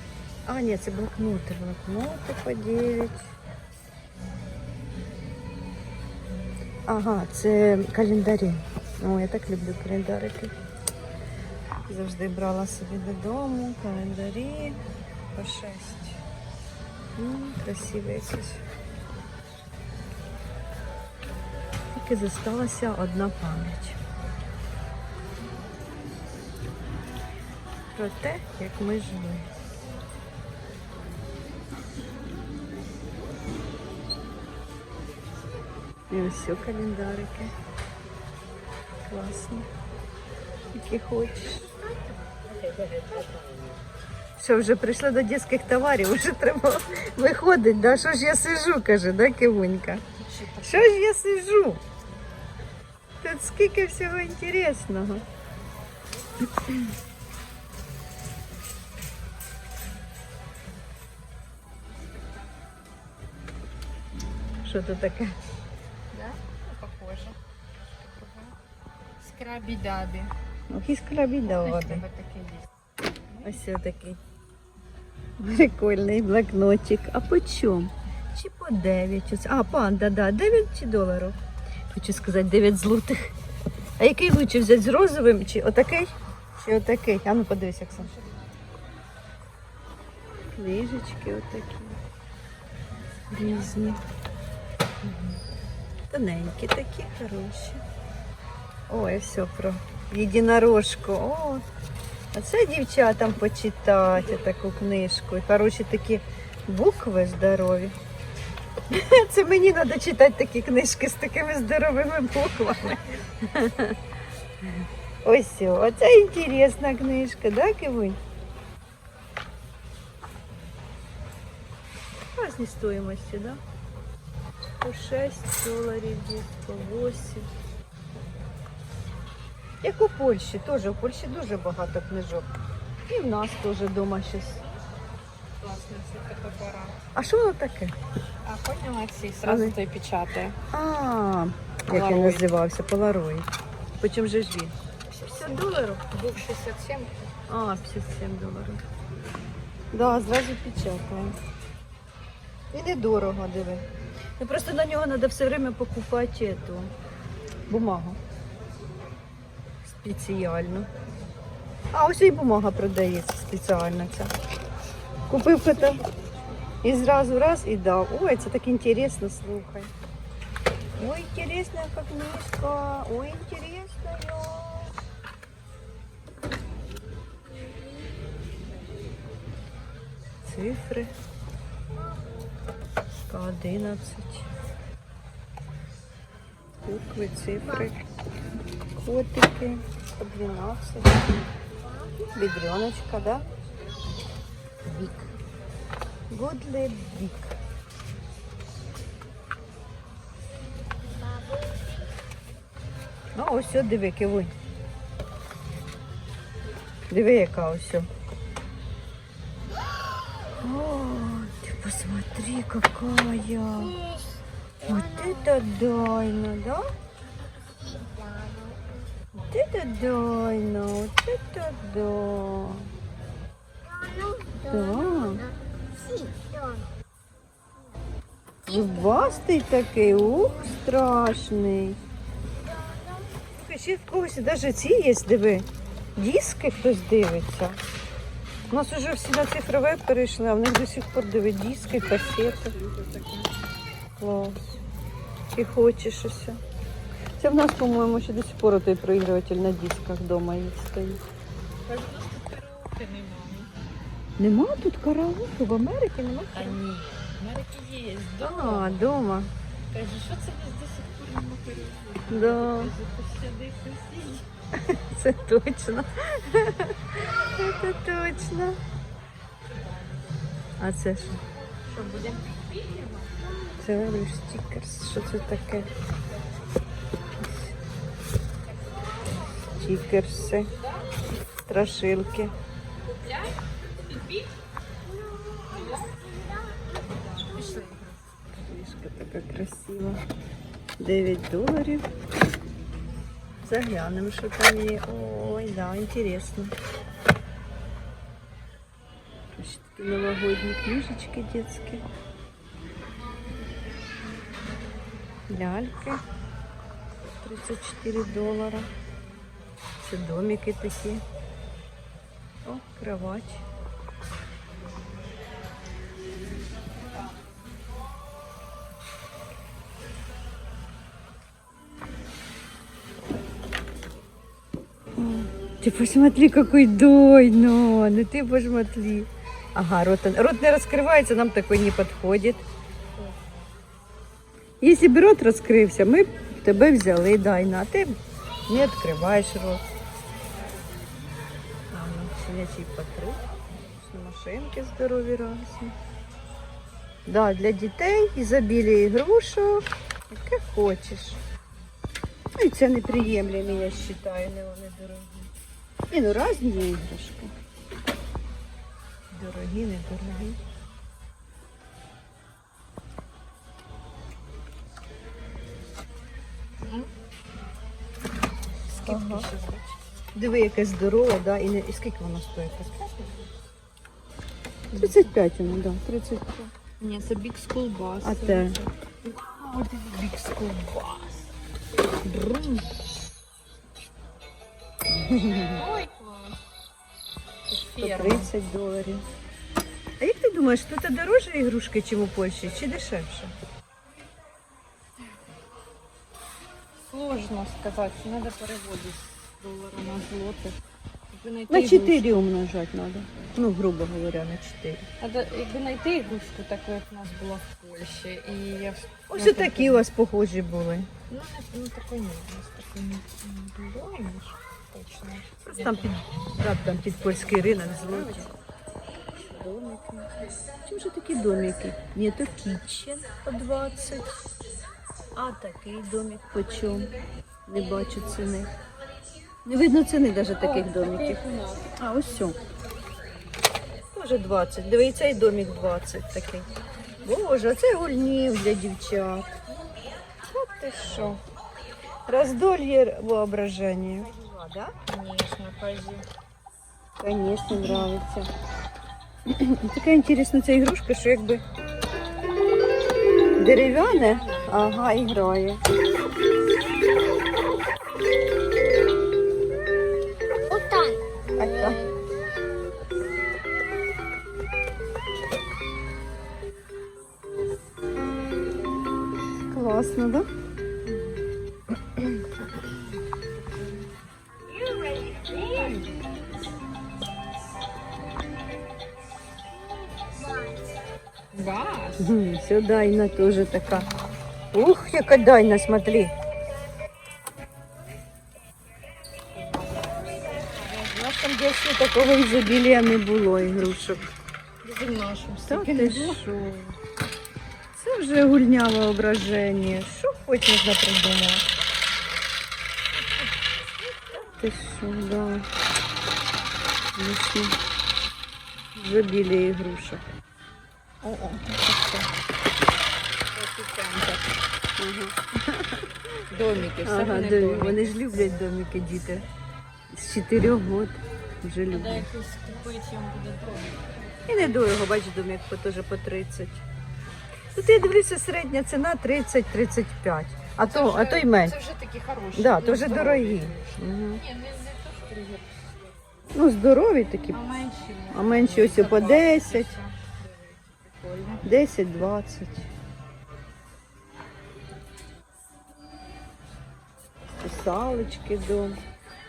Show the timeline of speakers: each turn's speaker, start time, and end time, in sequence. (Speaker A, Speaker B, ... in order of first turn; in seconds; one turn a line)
Speaker A: 0.5-3.4
Speaker A: 6.9-10.5
Speaker A: 11.9-14.8
Speaker A: 15.3-16.2
Speaker A: 17.2-18.6
Speaker A: 21.9-24.0
Speaker A: 27.9-29.5
Speaker A: 36.1-37.5
Speaker A: 39.0-39.7
Speaker A: 40.7-41.7
Speaker B: 42.3-43.6
Speaker A: 44.4-50.0
Speaker B: 50.1-51.0
Speaker A: 50.6-51.8
Speaker A: 53.2-55.2
Speaker A: 64.6-65.4
Speaker B: 66.1-68.5
Speaker B: 69.2-70.3
Speaker A: 70.7-72.0
Speaker B: 71.4-72.7
Speaker B: 73.3-73.6
Speaker A: 73.4-74.2
Speaker A: 75.4-81.4
Speaker A: 81.9-83.3
Speaker A: 84.0-88.1
Speaker B: 87.9-88.6
Speaker A: 90.5-92.0
Speaker A: 93.3-94.0
Speaker B: 93.4-94.0
Speaker A: 95.0-95.4
Speaker A: 96.1-97.8
Speaker A: 98.9-101.6
Speaker A: 102.3-108.0
Speaker A: 108.9-114.0
Speaker A: 114.6-118.2
Speaker A: 122.3-123.6
Speaker A: 124.8-127.5
Speaker A: 129.8-132.5
Speaker A: 133.1-134.6
Speaker B: 135.6-137.0
Speaker A: 137.1-137.9
Speaker B: 138.4-140.6
Speaker A: 139.4-139.8
Speaker A: 140.7-143.5
Speaker B: 141.9-142.5
Speaker A: 144.0-144.8
Speaker B: 145.1-147.3
Speaker A: 145.3-145.6
Speaker A: 147.5-148.8
Speaker A: 149.9-151.3
Speaker A: 152.7-153.9
Speaker A: 154.4-156.9
Speaker A: 157.7-158.2
Speaker A: 159.8-160.9
Speaker A: 161.9-164.3
Speaker A: 165.3-166.0
Speaker A: 166.8-169.9
Speaker A: 171.0-174.9
Speaker A: 180.4-181.1
Speaker A: 183.3-184.5
Speaker A: 186.9-188.0
Speaker A: 188.9-191.3
Speaker C: 191.8-192.3
Speaker A: 192.3-193.4
Speaker A: 194.9-195.3
Speaker A: 196.3-197.6
Speaker C: 200.9-202.1
Speaker A: 203.3-204.5
Speaker A: 207.1-208.1
Speaker A: 210.6-213.9
Speaker C: 213.8-215.5
Speaker A: 214.8-216.9
Speaker C: 217.7-219.1
Speaker A: 219.3-222.9
Speaker C: 223.8-227.0
Speaker A: 224.7-225.4
Speaker A: 228.7-232.0
Speaker C: 228.7-229.4
Speaker C: 232.6-233.4
Speaker A: 233.5-237.8
Speaker A: 238.7-242.8
Speaker B: 241.8-243.5
Speaker A: 244.2-244.8
Speaker A: 245.5-246.6
Speaker A: 247.4-251.2
Speaker B: 251.8-253.7
Speaker A: 254.4-256.8
Speaker B: 256.5-259.2
Speaker A: 258.4-259.5
Speaker B: 259.9-264.5
Speaker A: 262.3-262.9
Speaker A: 264.7-268.8
Speaker B: 269.6-270.7
Speaker A: 270.8-271.4
Speaker B: 271.7-273.4
Speaker A: 273.8-275.9
Speaker A: 277.4-277.7
Speaker A: 279.8-280.7
Speaker B: 280.7-281.1
Speaker A: 281.6-282.5
Speaker B: 283.0-284.5
Speaker C: 285.0-287.9
Speaker B: 285.7-286.1
Speaker B: 287.3-288.3
Speaker A: 288.5-290.2
Speaker A: 291.0-292.1
Speaker A: 293.6-296.7
Speaker A: 299.5-302.0
Speaker A: 305.5-306.2
Speaker A: 307.4-308.9
Speaker A: 310.0-311.2
Speaker A: 312.6-313.6
Speaker A: 325.1-332.6
Speaker A: 334.8-339.9
Speaker A: 341.9-345.9
Speaker A: 347.3-351.4
Speaker A: 352.6-355.5
Speaker B: 353.0-354.1
Speaker A: 356.1-357.6
Speaker A: 359.3-360.6
Speaker B: 366.8-367.1
Speaker B: 368.9-369.9
Speaker A: 369.0-369.5
Speaker A: 370.3-372.9
Speaker B: 372.9-373.5
Speaker B: 374.9-375.3
Speaker A: 374.9-376.7
Speaker B: 377.0-381.4
Speaker A: 378.2-378.8
Speaker A: 379.4-380.8
Speaker A: 382.2-382.9
Speaker A: 385.1-385.8
Speaker B: 385.7-386.6
Speaker B: 387.7-388.5
Speaker A: 388.0-389.2
Speaker A: 390.2-393.5
Speaker B: 397.0-402.4
Speaker A: 401.7-405.1
Speaker B: 405.2-410.0
Speaker A: 409.3-411.1
Speaker B: 411.3-416.1
Speaker A: 415.6-418.5
Speaker B: 418.1-418.5
Speaker A: 419.4-420.3
Speaker A: 420.8-424.4
Speaker A: 425.4-427.1
Speaker A: 427.7-428.7
Speaker A: 429.6-432.6
Speaker B: 430.6-431.9
Speaker A: 434.1-436.7
Speaker A: 437.2-439.5
Speaker A: 440.5-441.4
Speaker A: 442.3-444.9
Speaker B: 445.0-446.3
Speaker A: 447.2-448.5
Speaker A: 449.5-451.6
Speaker A: 453.6-455.8
Speaker B: 453.8-454.9
Speaker C: 460.7-462.1
Speaker A: 461.6-462.0
Speaker A: 469.6-470.5
Speaker B: 474.7-476.1
Speaker C: 480.1-480.8
Speaker B: 481.5-482.4
Speaker A: 482.2-484.1
Speaker B: 483.7-484.4
Speaker A: 484.7-486.3
Speaker B: 489.5-490.7
Speaker A: 490.8-494.3
Speaker B: 494.8-496.8
Speaker A: 495.7-496.7
Speaker A: 497.9-501.6
Speaker B: 503.1-503.5
Speaker A: 504.3-505.7
Speaker A: 507.1-507.8
Speaker A: 508.9-510.2
Speaker B: 511.2-512.3
Speaker B: 513.5-514.5
Speaker A: 515.0-516.1
Speaker B: 516.5-518.6
Speaker A: 517.0-519.4
Speaker A: 520.1-522.3
Speaker B: 521.9-524.2
Speaker A: 524.5-526.8
Speaker A: 527.7-531.8
Speaker B: 530.8-536.3
Speaker A: 532.5-534.4
Speaker A: 536.5-537.6
Speaker B: 537.5-541.7
Speaker A: 538.3-539.9
Speaker A: 541.6-542.9
Speaker A: 547.5-549.0